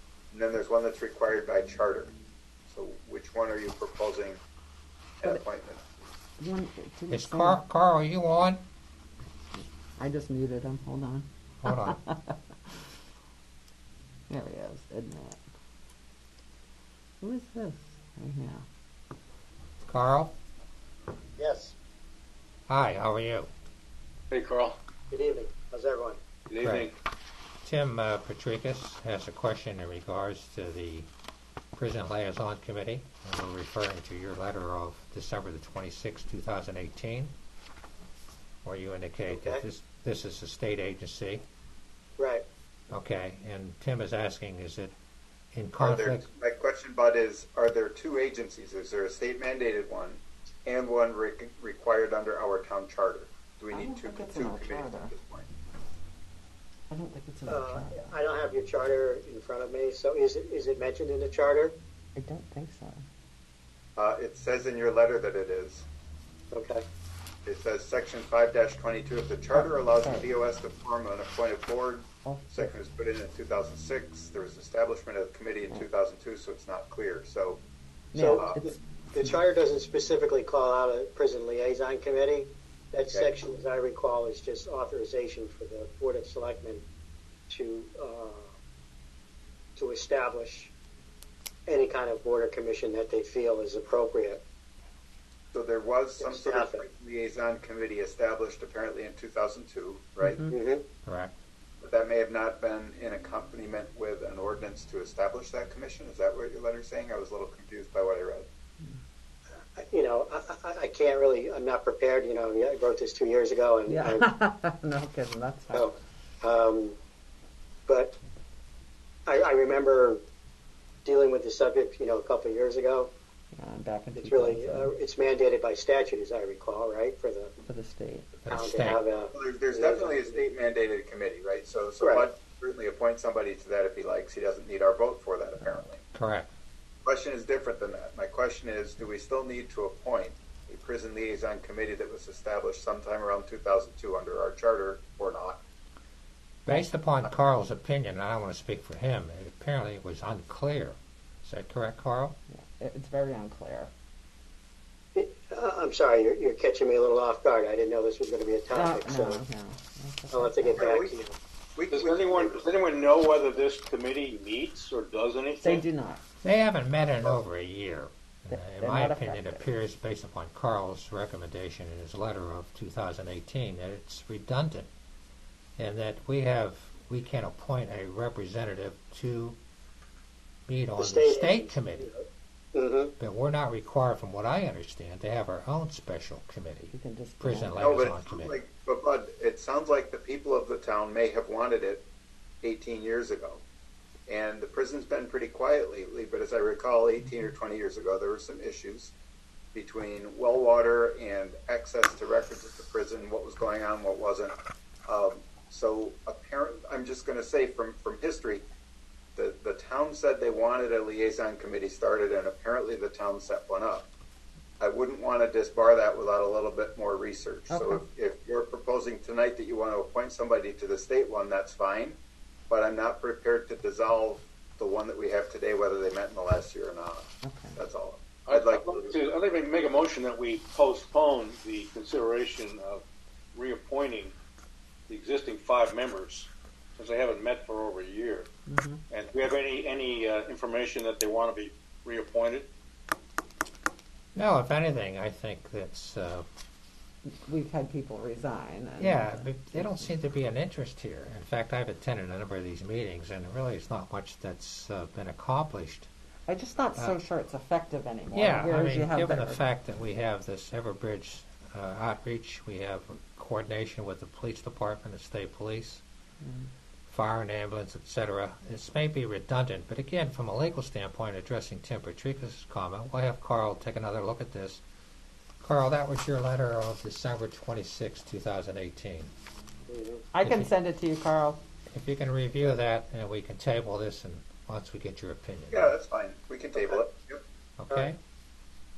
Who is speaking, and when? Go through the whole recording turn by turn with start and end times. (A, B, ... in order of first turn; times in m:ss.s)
0:00.3-0:02.1 A
0:02.7-0:04.4 A
0:05.2-0:05.8 A
0:06.4-0:07.6 B
0:07.1-0:08.6 C
0:09.5-0:12.7 B
0:11.6-0:12.0 C
0:14.3-0:15.4 B
0:17.2-0:18.6 B
0:19.8-0:20.3 C
0:21.4-0:21.7 D
0:22.7-0:23.5 C
0:24.3-0:24.8 E
0:25.1-0:26.2 D
0:26.5-0:27.0 E
0:26.6-0:26.9 C
0:27.6-0:31.1 C
0:31.7-0:37.3 C
0:38.6-0:41.4 C
0:39.3-0:39.6 D
0:42.2-0:42.4 D
0:42.9-0:44.9 C
0:45.5-0:46.2 C
0:45.8-0:55.5 A
0:53.7-0:55.1 B
0:56.9-0:58.2 B
0:57.5-1:01.7 D
1:02.2-1:03.0 B
1:04.0-1:05.9 A
1:06.5-1:06.8 D
1:07.4-1:17.6 A
1:09.5-1:10.3 B
1:12.2-1:12.7 B
1:18.1-1:19.3 B
1:18.2-1:26.8 D
1:18.3-1:18.6 A
1:27.5-1:28.5 D
1:29.8-1:30.7 D
1:31.7-1:34.4 D
1:35.5-1:40.4 A
1:36.2-1:36.8 D
1:40.2-1:40.5 B
1:40.5-1:40.8 D
1:41.0-1:41.3 C
1:41.8-1:48.5 A
1:49.8-1:54.3 D
1:53.9-1:55.9 B
1:55.7-1:57.0 D
1:57.9-1:58.2 D
1:59.2-2:00.2 D
2:01.0-2:03.1 D
2:03.5-2:04.9 B
2:04.1-2:07.6 D
2:07.6-2:08.5 B
2:08.4-2:09.0 C
2:08.5-2:10.4 D
2:09.3-2:16.0 A
2:12.0-2:12.3 D
2:16.1-2:16.5 C
2:17.0-2:25.6 A
2:26.6-2:32.4 C
2:32.5-2:33.9 B
2:35.1-2:39.4 D
2:38.7-2:41.0 B
2:40.3-2:41.3 D
2:40.8-2:41.2 A
2:41.8-2:42.6 A
2:41.9-2:45.8 E
2:45.6-2:46.2 B
2:46.4-2:54.9 C
2:48.5-2:49.6 B
2:55.8-2:59.6 C
3:00.7-3:02.1 C
3:01.0-3:03.1 D
3:03.2-3:08.6 C
3:06.9-3:08.0 B
3:07.8-3:12.0 A
3:12.6-3:13.6 A
3:14.3-3:19.1 A
3:19.7-3:24.5 A
3:25.1-3:28.6 A
3:29.4-3:34.1 A
3:34.8-3:42.2 A
3:37.7-3:38.0 B
3:42.7-3:49.1 A
3:47.4-3:47.8 B
3:48.5-3:54.3 E
3:55.1-3:58.5 E
3:58.7-3:59.0 B
3:59.1-4:02.7 E
4:04.3-4:06.5 C
4:07.3-4:10.0 B
4:09.0-4:16.1 C
4:16.5-4:19.6 B
4:18.3-4:26.0 C
4:26.4-4:26.7 B
4:27.1-4:34.8 C
4:35.6-4:39.3 C
4:39.9-4:40.2 D
4:40.3-4:41.6 B
4:40.4-4:40.7 C
4:41.9-4:45.9 C
4:45.7-4:47.4 A
4:47.8-4:48.2 C